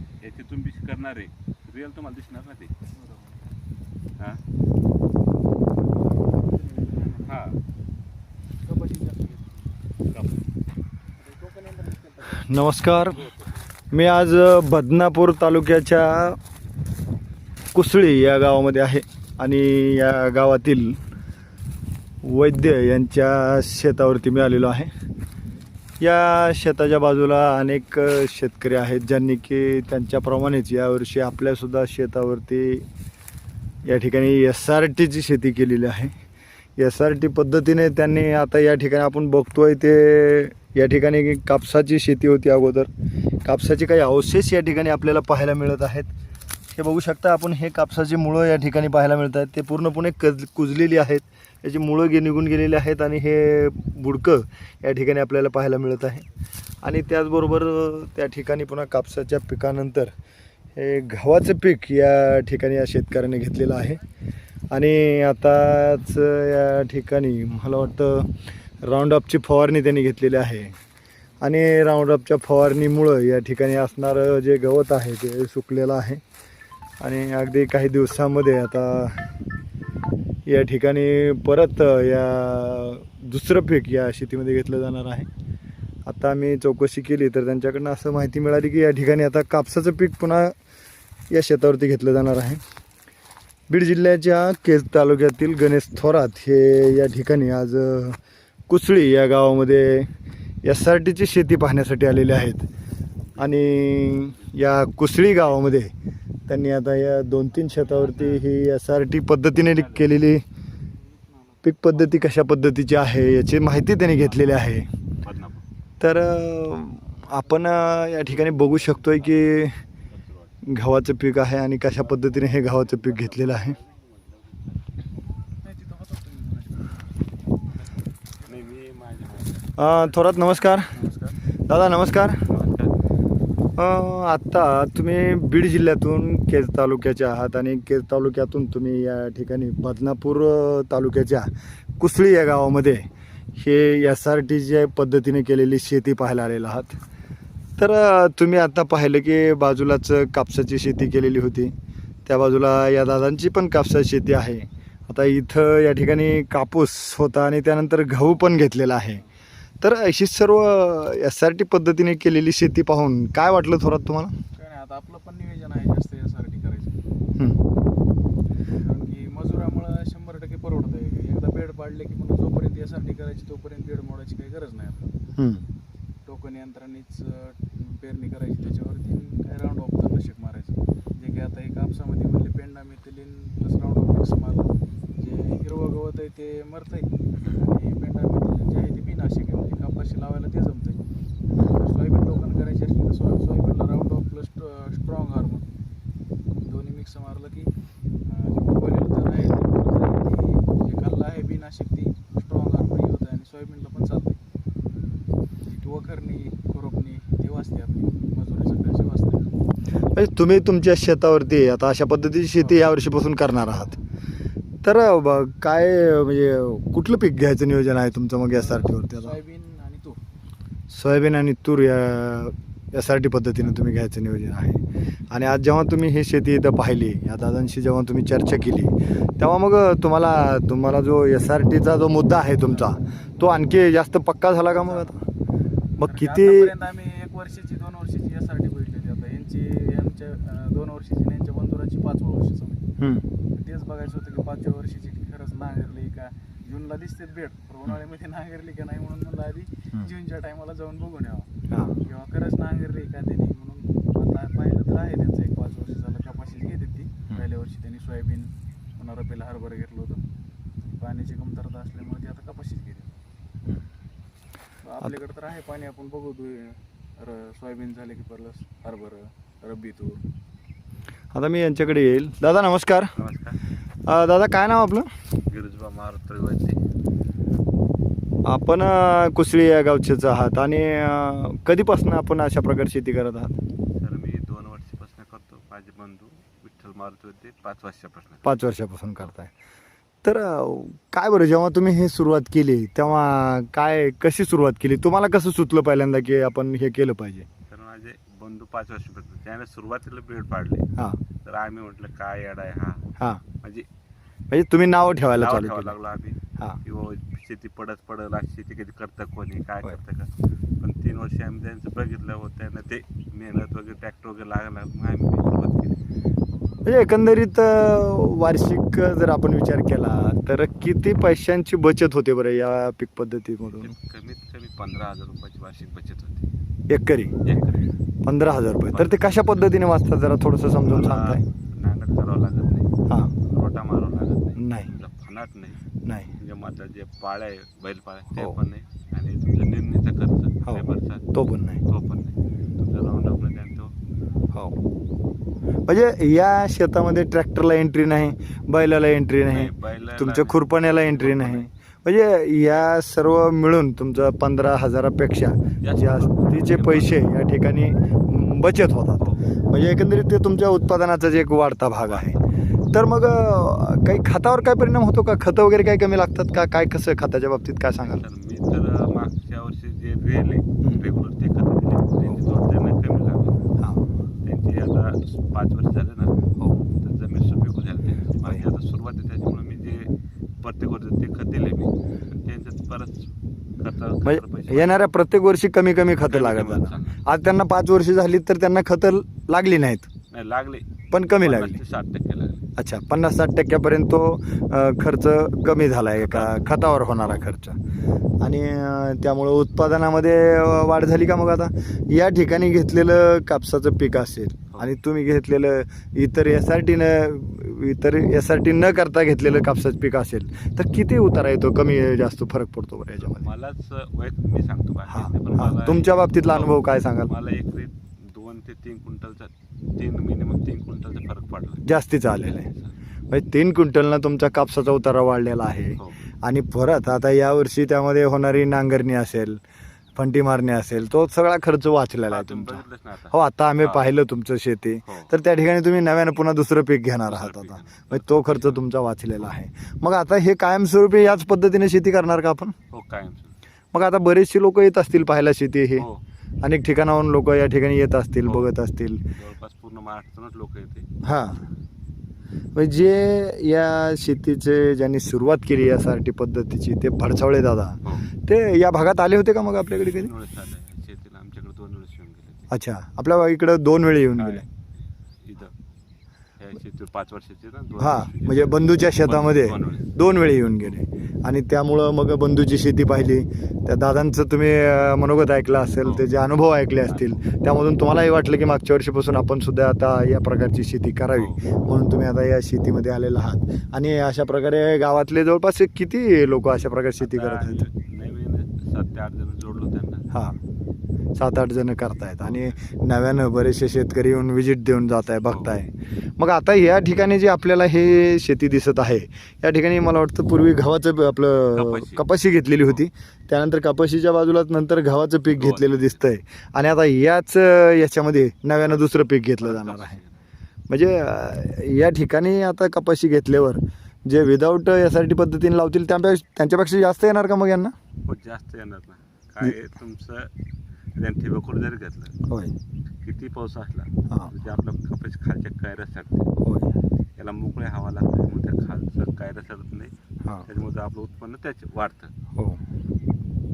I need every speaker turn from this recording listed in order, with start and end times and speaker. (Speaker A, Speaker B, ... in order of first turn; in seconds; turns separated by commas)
Speaker A: 0.2-2.7, Speaker B: 2.9-3.4, Speaker B: 6.2-7.3, Speaker A: 7.2-7.6, Speaker B: 8.6-9.7, Speaker A: 10.1-10.4, Speaker B: 11.2-12.5, Speaker C: 12.3-13.3, Speaker A: 13.0-13.7, Speaker C: 13.9-16.4, Speaker C: 17.7-21.0, Speaker C: 22.2-24.9, Speaker C: 26.0-32.9, Speaker C: 33.8-36.1, Speaker C: 36.8-42.9, Speaker C: 43.4-46.1, Speaker C: 46.7-56.2, Speaker C: 56.8-60.1, Speaker C: 60.8-64.0, Speaker C: 64.7-70.8, Speaker C: 71.4-76.2, Speaker C: 77.0-79.2, Speaker C: 80.5-85.3, Speaker C: 86.0-90.5, Speaker C: 91.3-92.6, Speaker C: 93.7-98.2, Speaker C: 98.7-100.1, Speaker C: 100.6-102.7, Speaker C: 103.4-105.9, Speaker A: 104.1-104.5, Speaker C: 106.5-110.4, Speaker A: 107.9-108.2, Speaker B: 107.9-108.4, Speaker A: 109.7-110.2, Speaker B: 111.0-112.3, Speaker C: 111.6-114.9, Speaker A: 114.2-115.6, Speaker C: 116.0-119.8, Speaker A: 118.2-120.6, Speaker C: 120.6-123.8, Speaker A: 121.8-124.8, Speaker B: 125.6-127.8, Speaker B: 128.4-128.7, Speaker A: 128.4-130.2, Speaker C: 129.8-130.9, Speaker B: 130.7-131.3, Speaker C: 131.7-132.4, Speaker A: 132.4-132.9, Speaker C: 133.8-146.9, Speaker C: 147.8-151.7, Speaker C: 152.2-159.2, Speaker C: 159.8-164.3, Speaker B: 164.5-167.0, Speaker B: 168.7-175.1, Speaker C: 175.4-175.7, Speaker B: 176.2-191.0, Speaker B: 191.6-195.7, Speaker B: 196.6-197.7, Speaker B: 198.2-204.4, Speaker B: 205.6-209.5, Speaker C: 210.1-214.0, Speaker B: 212.6-212.8, Speaker C: 214.8-219.3, Speaker B: 218.5-220.2, Speaker C: 220.9-235.2, Speaker B: 232.5-233.3, Speaker B: 234.7-235.1, Speaker C: 236.0-236.7, Speaker B: 236.0-242.8, Speaker C: 243.0-243.2, Speaker B: 243.5-251.5, Speaker C: 251.7-252.0, Speaker B: 252.0-260.2, Speaker B: 261.0-263.1, Speaker B: 264.8-270.2, Speaker C: 271.3-273.1, Speaker A: 273.1-273.6, Speaker C: 274.1-275.1, Speaker A: 275.5-276.8, Speaker C: 278.4-283.6, Speaker A: 283.9-288.6, Speaker C: 288.4-289.5, Speaker C: 290.2-297.5, Speaker A: 297.7-300.9, Speaker A: 301.4-303.1, Speaker A: 303.6-303.9, Speaker C: 304.5-305.9, Speaker A: 305.3-316.0, Speaker C: 316.8-323.9, Speaker A: 323.8-326.4, Speaker C: 326.9-327.4, Speaker A: 327.4-327.9, Speaker C: 328.2-331.4, Speaker A: 328.9-330.0, Speaker A: 330.8-332.9, Speaker C: 333.1-333.3, Speaker A: 333.5-335.8, Speaker C: 334.6-334.9, Speaker C: 336.0-336.3, Speaker A: 336.4-341.2, Speaker C: 340.6-341.8, Speaker A: 341.9-343.9, Speaker C: 344.5-344.8, Speaker C: 345.9-362.4, Speaker A: 349.4-351.6, Speaker A: 355.8-357.3, Speaker A: 359.2-359.5, Speaker A: 362.1-362.4, Speaker C: 362.9-368.2, Speaker A: 368.0-373.6, Speaker C: 373.8-374.0, Speaker A: 374.4-380.1, Speaker A: 380.6-383.2, Speaker A: 383.8-385.0, Speaker C: 384.2-390.1, Speaker A: 386.2-387.2, Speaker A: 390.3-390.9, Speaker C: 391.1-391.8, Speaker A: 391.4-392.7, Speaker C: 392.8-397.8, Speaker A: 396.2-396.6, Speaker C: 398.4-413.4, Speaker A: 413.3-422.9, Speaker C: 415.1-417.3, Speaker C: 421.8-422.7, Speaker C: 423.3-429.6, Speaker C: 430.1-442.7, Speaker A: 432.3-434.1, Speaker A: 435.1-435.3, Speaker A: 437.2-438.8, Speaker A: 442.9-443.5, Speaker C: 443.9-446.1, Speaker C: 446.6-449.2, Speaker A: 448.4-448.7, Speaker A: 449.4-451.1, Speaker C: 451.2-451.6, Speaker C: 452.7-460.3, Speaker A: 458.0-458.3, Speaker A: 459.9-462.7, Speaker C: 462.7-464.6, Speaker A: 464.4-464.6, Speaker A: 465.4-465.7, Speaker A: 466.6-470.1, Speaker C: 468.0-487.8, Speaker A: 477.0-477.4, Speaker A: 487.2-490.2, Speaker C: 490.3-490.6, Speaker C: 491.4-510.2, Speaker A: 492.4-492.8, Speaker A: 495.5-495.7, Speaker A: 501.7-502.2, Speaker A: 505.5-506.2, Speaker A: 508.8-510.4, Speaker C: 510.9-517.9, Speaker A: 518.2-520.5, Speaker A: 521.1-522.3, Speaker C: 522.5-522.7, Speaker A: 523.2-526.5, Speaker C: 526.6-526.9, Speaker A: 527.4-530.1, Speaker A: 530.6-532.3